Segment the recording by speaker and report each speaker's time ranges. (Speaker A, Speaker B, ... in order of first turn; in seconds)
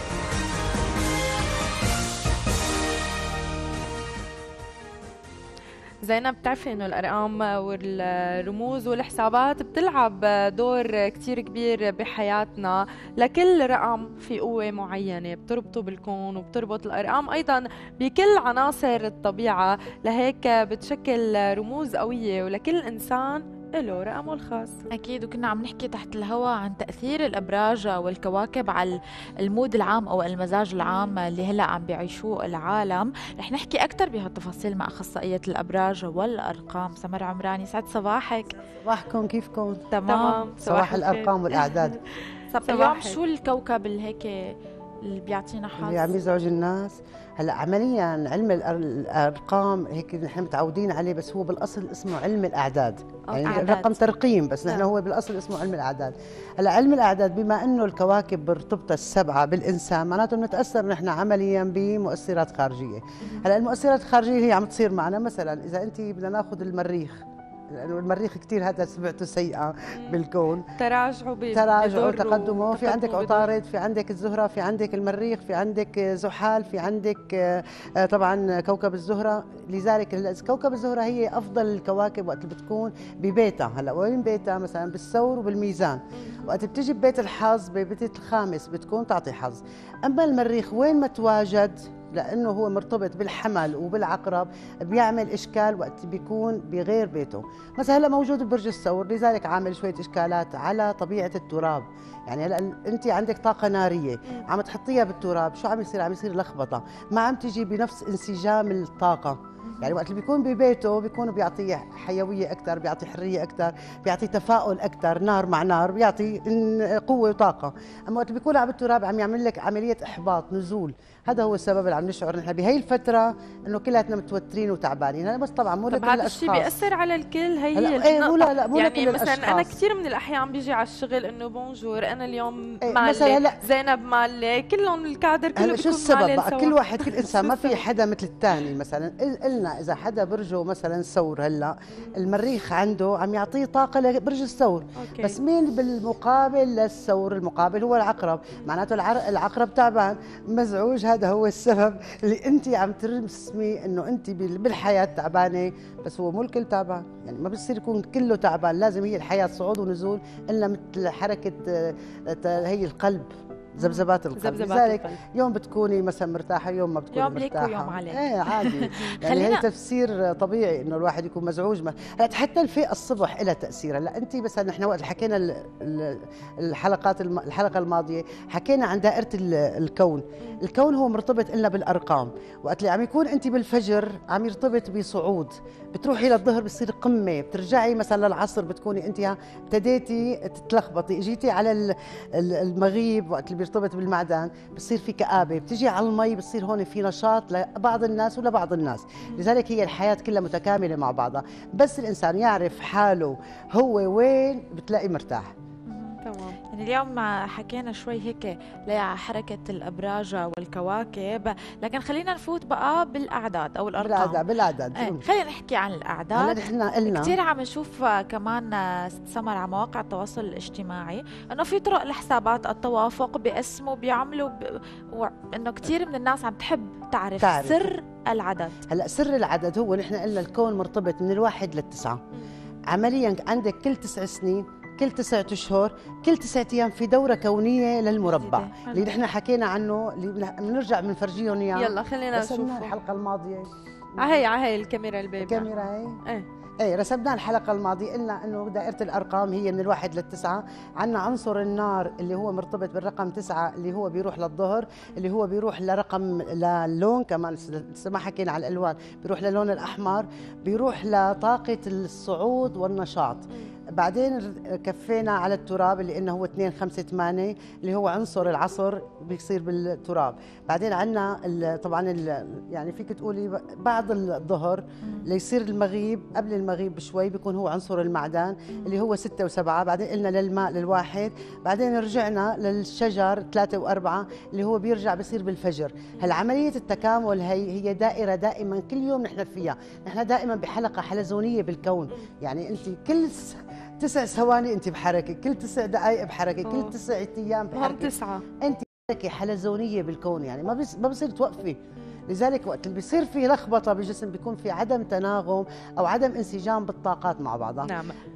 Speaker A: 6.0-24.8, 30.8-31.2, 40.1-42.0, 42.7-43.2, 53.3-53.7, 69.9-70.2, 70.8-73.5, 86.2-86.5, 125.9-137.8, 145.0-145.4, 164.3-165.2, 206.2-206.6, 241.8-242.9, 244.2-245.7, 296.6-296.9, 297.7-298.4, 307.8-308.2
Speaker B: 24.9-38.5, 39.9-40.4, 42.5-46.2, 53.5-54.0, 109.7-109.9, 167.1-169.6, 205.9-228.8, 238.2-239.1, 278.7-279.0
Speaker C: 38.9-39.9, 40.6-42.0, 45.8-70.7, 71.5-126.7, 127.8-129.8, 132.8-133.6, 135.6-205.5, 214.0-215.2, 216.3-217.4, 227.4-227.9, 228.9-232.2, 232.9-244.4, 245.4-246.2, 246.8-307.9